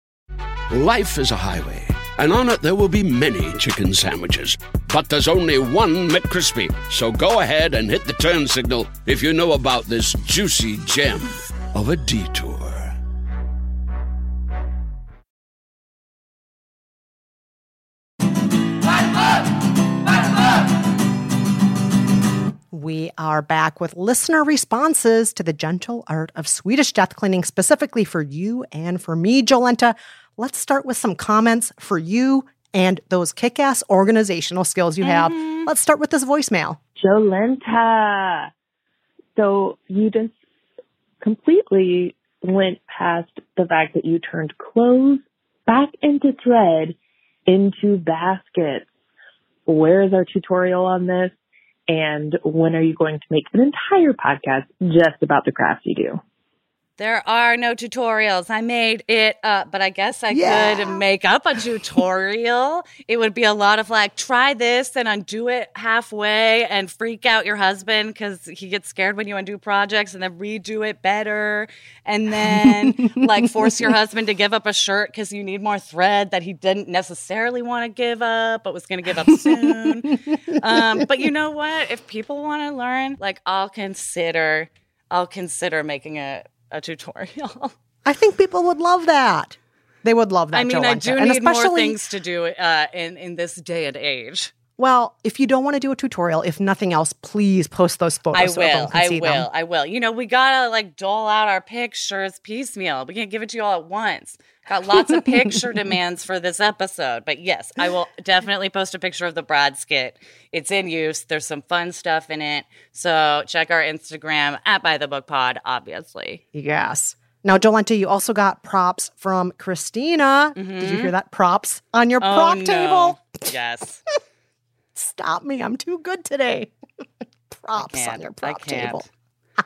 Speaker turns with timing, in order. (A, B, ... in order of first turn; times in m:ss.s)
0:00.7-0:12.9 A
0:22.7-0:36.8 B
0:35.0-0:35.7 C
0:37.0-0:38.5 D
0:39.4-0:40.3 D
0:41.2-0:47.0 D
0:47.5-0:48.9 D
0:49.7-0:51.3 D
0:51.9-0:56.2 D
0:57.0-1:27.7 C
1:00.3-1:01.0 B
1:12.4-1:13.9 B
1:19.3-1:20.1 B
1:20.7-1:21.0 B
1:28.0-1:32.0 B
1:30.5-1:34.5 C
1:34.8-1:39.5 B
1:38.3-1:56.4 C
1:44.9-1:45.3 B
1:56.5-2:03.2 B
2:00.6-2:01.1 C
2:02.2-2:04.0 C
2:05.0-2:06.7 B
2:07.5-2:09.0 B
2:07.8-2:09.1 C